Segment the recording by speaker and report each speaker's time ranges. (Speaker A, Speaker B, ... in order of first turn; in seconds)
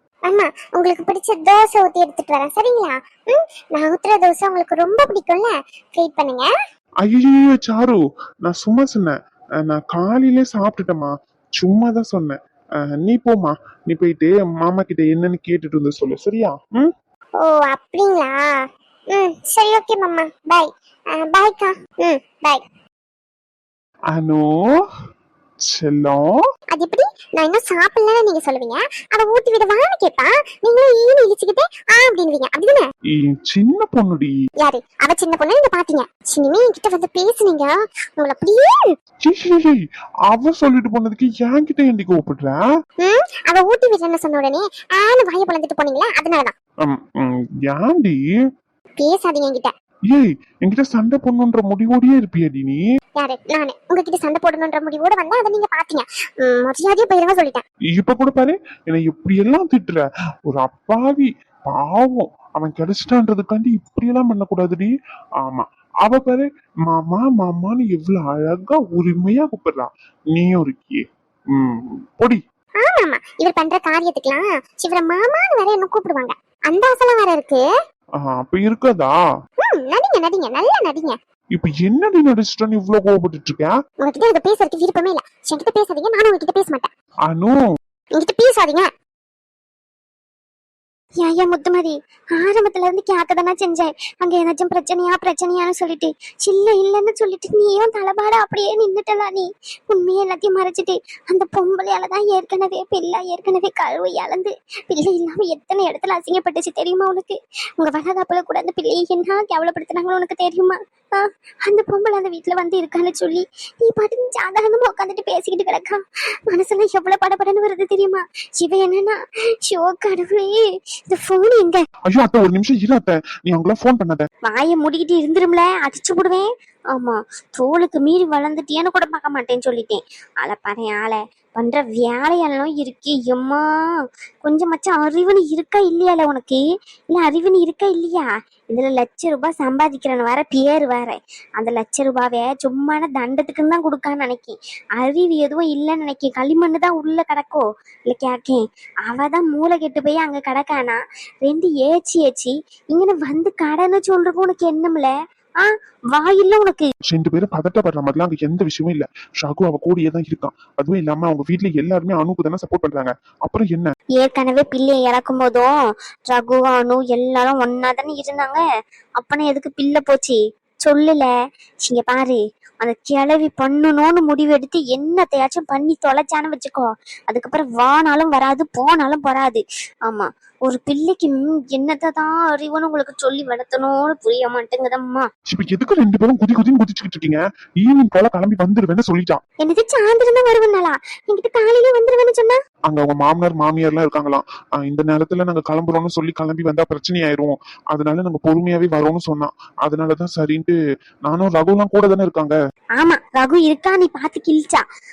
Speaker A: 0.3-6.5, 17.4-18.4, 19.1-22.6, 26.7-32.9, 34.6-38.7, 43.0-46.5, 49.0-49.7, 53.2-57.6, 72.8-77.6, 79.6-81.2, 84.0-86.9, 88.2-88.9
Speaker B: 7.0-9.1, 9.7-12.4, 13.0-16.9, 24.1-24.4, 25.7-26.2, 33.2-34.3, 39.2-39.8, 40.3-42.6, 46.8-48.2, 50.1-52.8, 57.9-64.9, 65.5-71.0, 71.5-72.4, 78.2-79.1, 81.5-83.8, 87.3-87.6, 122.1-124.3, 157.1-163.9, 185.5-189.4, 192.9-200.8, 201.3-202.6
Speaker C: 91.2-120.6, 121.1-121.8, 124.5-133.6, 134.4-156.9, 164.2-165.7, 166.3-168.6, 169.2-171.3, 171.8-185.3, 189.6-192.6, 203.0-204.8